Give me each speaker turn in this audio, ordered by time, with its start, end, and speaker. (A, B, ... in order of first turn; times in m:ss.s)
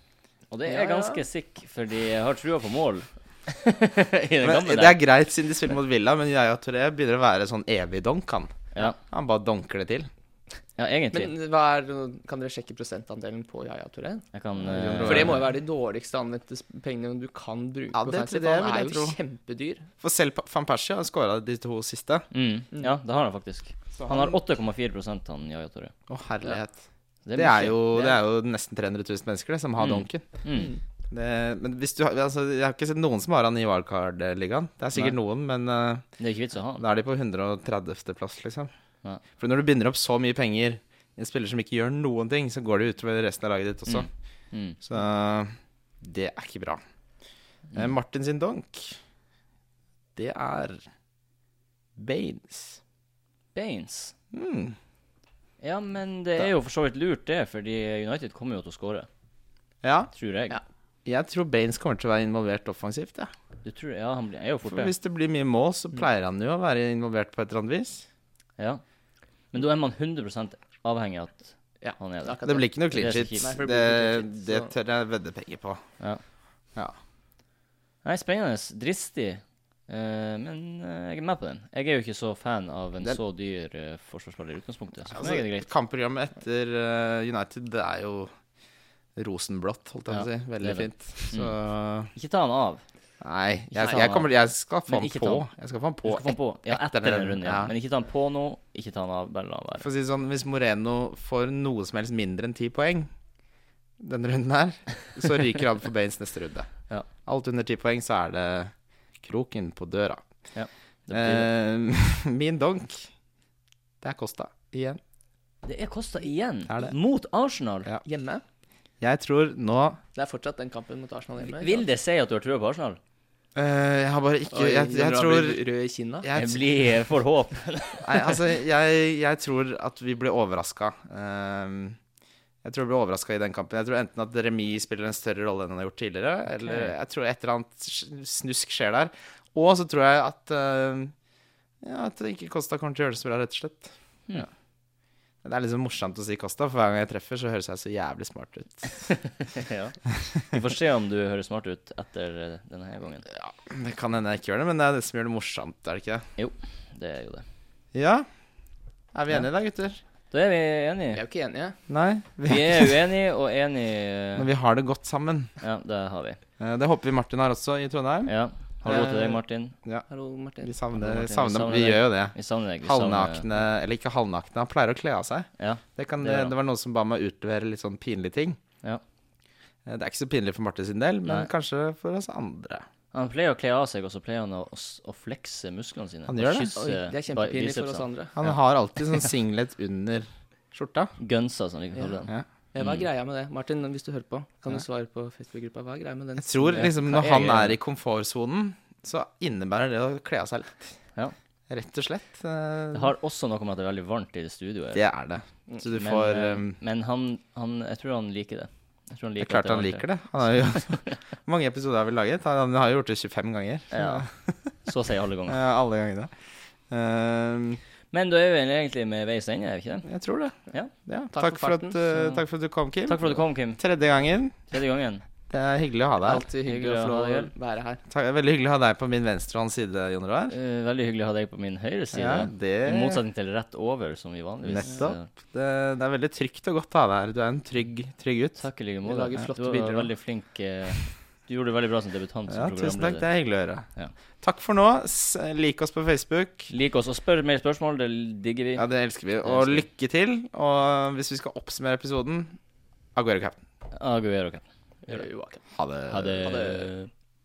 0:00.5-0:05.0 A
0:00.6-0:01.2 B
0:04.4-0:10.1 C
0:10.8-0:11.3 A
0:11.1-0:14.3 B
0:14.3-0:15.4 A
0:14.6-0:15.4 C
0:15.0-0:19.9 B
0:17.9-0:19.2 C
0:20.0-0:22.2 C
0:22.3-0:25.9 A
0:24.0-0:24.3 C
0:26.1-0:26.8 C
0:27.2-0:27.8 A
0:27.3-0:30.2 C
0:29.8-0:30.7 A
0:30.5-0:30.8 B
0:31.1-0:36.0 C
0:36.2-0:36.8 A
0:36.8-0:38.7 C
0:39.4-0:44.1 C
0:43.9-0:44.8 A
0:44.8-0:46.8 C
0:47.7-0:49.0 C
0:50.2-0:50.8 C
0:52.0-0:52.8 C
0:53.5-0:54.1 A
0:54.3-0:54.8 C
0:55.6-0:59.1 A
0:59.8-1:00.1 C
1:00.1-1:00.6 A
1:01.0-1:03.3 C
1:03.6-1:04.9 A
1:04.7-1:08.0 C
1:09.5-1:13.5 A
1:11.8-1:12.7 B
1:12.4-1:15.8 C
1:13.2-1:14.7 B
1:18.0-1:25.7 A
1:25.1-1:28.3 C
1:29.2-1:32.1 C
1:30.1-1:31.5 A
1:32.1-1:32.8 A
1:33.2-1:37.7 C
1:33.8-1:34.2 A
1:34.9-1:35.5 A
1:36.0-1:39.9 A
1:39.8-1:43.1 C
1:44.0-1:46.7 C
1:47.2-1:50.2 C
1:50.5-1:51.5 A
1:51.1-1:53.1 C
1:54.0-1:55.0 C
1:55.6-1:57.9 A
1:56.7-1:56.9 C
1:58.0-1:58.4 B
1:59.0-2:00.0 C
2:00.1-2:01.8 B
2:01.5-2:03.0 A
2:03.5-2:05.6 C
2:04.5-2:06.3 B
2:06.2-2:06.6 C
2:06.3-2:08.4 A
2:08.0-2:12.0 C
2:12.6-2:21.1 C
2:16.6-2:16.9 A
2:21.8-2:24.4 C
2:25.4-2:29.0 C
2:29.0-2:33.2 A
2:33.3-2:36.3 C
2:36.4-2:37.4 A
2:37.9-2:38.3 C
2:39.1-2:40.0 C
2:40.3-2:41.2 A
2:41.1-2:41.8 B
2:41.9-2:43.0 C
2:42.5-2:44.5 A
2:44.4-2:45.5 C
2:45.6-2:46.4 A
2:46.6-2:50.0 C
2:48.2-2:49.7 A
2:50.1-2:50.7 B
2:50.6-2:58.6 C
2:50.9-2:53.5 A
2:55.6-2:56.5 A
2:59.8-3:02.8 C
3:03.1-3:08.5 A
3:06.3-3:06.8 C
3:06.8-3:08.3 B
3:08.4-3:11.1 C
3:11.2-3:13.0 A
3:12.0-3:12.2 B
3:12.7-3:16.9 B
3:16.4-3:20.9 C
3:16.7-3:17.8 A
3:21.7-3:23.1 C
3:22.9-3:25.0 A
3:24.9-3:26.8 C
3:25.9-3:30.0 A
3:29.4-3:34.7 C
3:30.7-3:31.1 A
3:33.9-3:34.3 A
3:34.8-3:35.6 A
3:35.5-3:36.3 C
3:36.9-3:37.8 C
3:38.1-3:40.1 A
3:40.0-3:40.5 C
3:41.0-3:44.5 C
3:41.3-3:42.0 B
3:43.0-3:43.8 A
3:44.7-3:45.2 A
3:45.5-3:46.4 C
3:46.2-3:48.0 B
3:46.6-3:47.5 A
3:48.1-3:50.5 C
3:50.5-3:55.3 A
3:52.1-3:53.2 C
3:54.6-3:58.6 C
3:58.6-4:03.2 A
3:59.0-4:00.1 B
4:02.5-4:03.8 C
4:04.4-4:06.7 C
4:06.7-4:08.8 A
4:08.8-4:12.6 C
4:09.4-4:09.8 A
4:13.1-4:13.6 C
4:13.9-4:15.2 A
4:15.1-4:15.6 B
4:15.7-4:16.6 C
4:16.1-4:17.1 A
4:16.5-4:16.8 B